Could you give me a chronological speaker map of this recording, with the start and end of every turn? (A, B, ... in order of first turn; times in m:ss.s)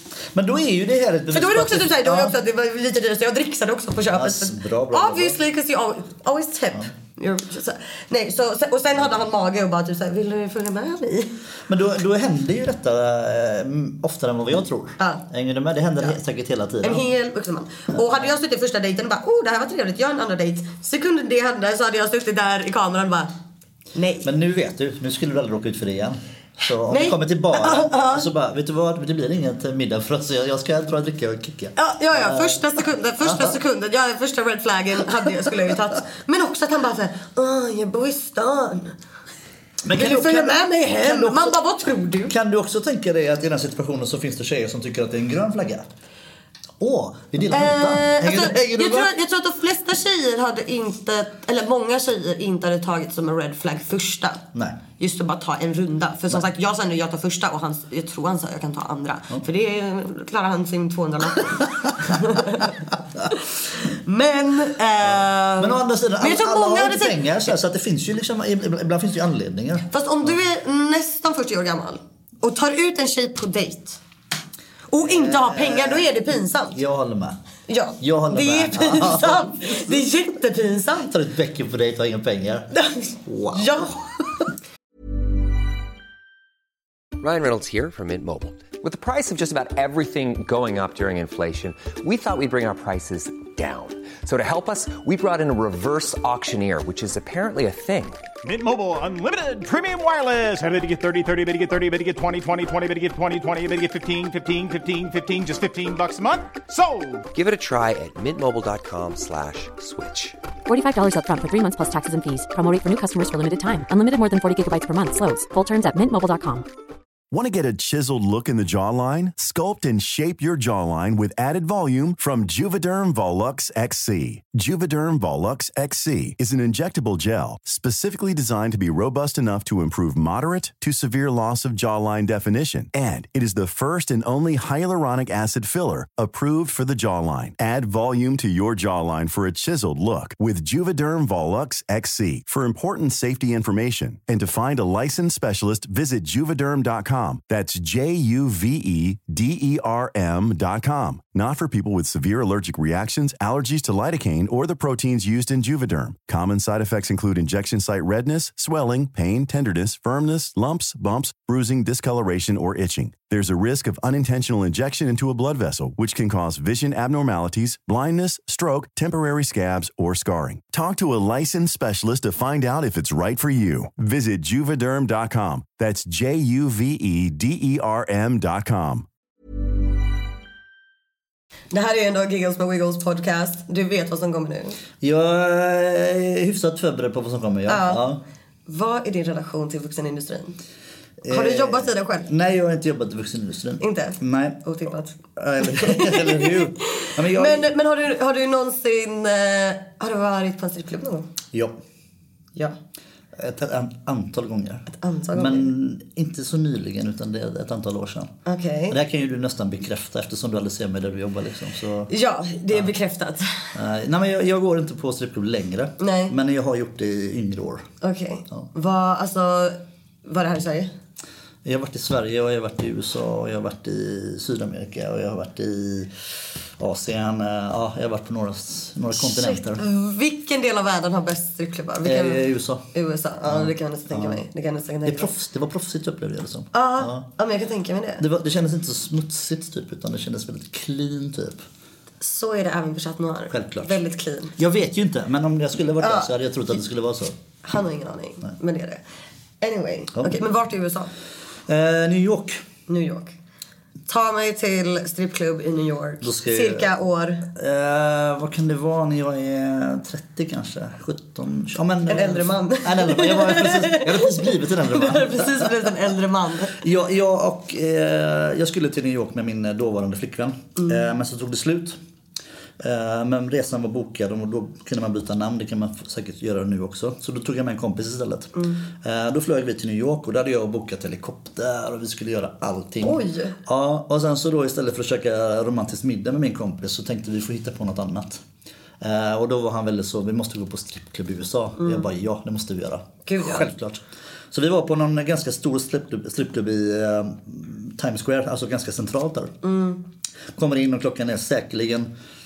0:00.3-0:02.4 A
0:01.3-0:11.3 B
0:04.1-0:05.4 A
0:11.7-0:17.0 A
0:16.8-0:23.3 B
0:18.0-0:18.2 A
0:23.9-0:24.3 B
0:24.2-0:32.7 A
0:26.9-0:28.3 B
0:31.8-0:38.9 B
0:33.2-0:33.6 A
0:39.8-0:41.6 A
0:39.9-0:42.3 B
0:42.3-0:45.8 A
0:46.8-0:49.1 A
0:47.5-0:54.4 B
0:54.5-0:54.8 A
0:55.0-1:02.7 B
1:01.6-1:02.2 A
1:03.3-1:07.5 B
1:05.0-1:10.3 A
1:09.9-1:14.0 B
1:14.9-1:16.8 B
1:15.0-1:16.1 A
1:16.7-1:17.4 A
1:17.7-1:21.1 B
1:18.0-1:20.0 A
1:21.0-1:22.7 A
1:22.7-1:24.0 B
1:23.2-1:24.0 A
1:27.2-1:38.2 C
1:38.4-1:47.3 D
1:47.3-1:50.4 C
1:50.7-1:56.6 E
1:57.3-2:59.1 F
3:01.7-3:04.8 B
3:05.0-3:08.2 A
3:07.7-3:08.0 B
3:08.6-3:10.6 B
3:11.2-3:14.6 A
3:11.3-3:12.3 B
3:13.8-3:21.3 B
3:15.4-3:17.7 A
3:21.5-3:21.8 A
3:23.4-3:28.3 A
3:24.9-3:25.7 B
3:28.4-3:29.0 B
3:28.9-3:32.1 A
3:32.1-3:33.5 B
3:33.7-3:37.9 A
3:36.0-3:36.3 B
3:38.0-3:40.9 B
3:41.6-3:46.1 A
3:46.8-3:49.8 A
3:49.1-3:55.3 B
3:52.0-3:52.8 A
3:53.4-3:54.4 A
3:55.0-3:57.3 A
3:56.7-3:58.2 B
3:58.2-4:01.6 A
4:02.2-4:04.6 B
4:03.5-4:04.0 A
4:04.6-4:07.3 A
4:06.0-4:06.3 B
4:07.6-4:09.0 B
4:09.6-4:11.1 B
4:10.1-4:10.4 A
4:11.7-4:12.6 A
4:12.9-4:13.3 B
4:14.1-4:17.5 B
4:16.2-4:16.9 A
4:17.5-4:26.0 A
4:22.1-4:26.8 B
4:26.8-4:32.0 A
4:30.8-4:31.0 B
4:32.8-4:48.4 A
4:38.6-4:38.8 B
4:43.0-4:43.6 B
4:49.0-4:54.0 A
4:51.8-4:52.1 B
4:53.2-4:53.7 B
4:54.5-4:59.5 A
4:59.6-5:00.0 B
5:00.6-5:02.1 A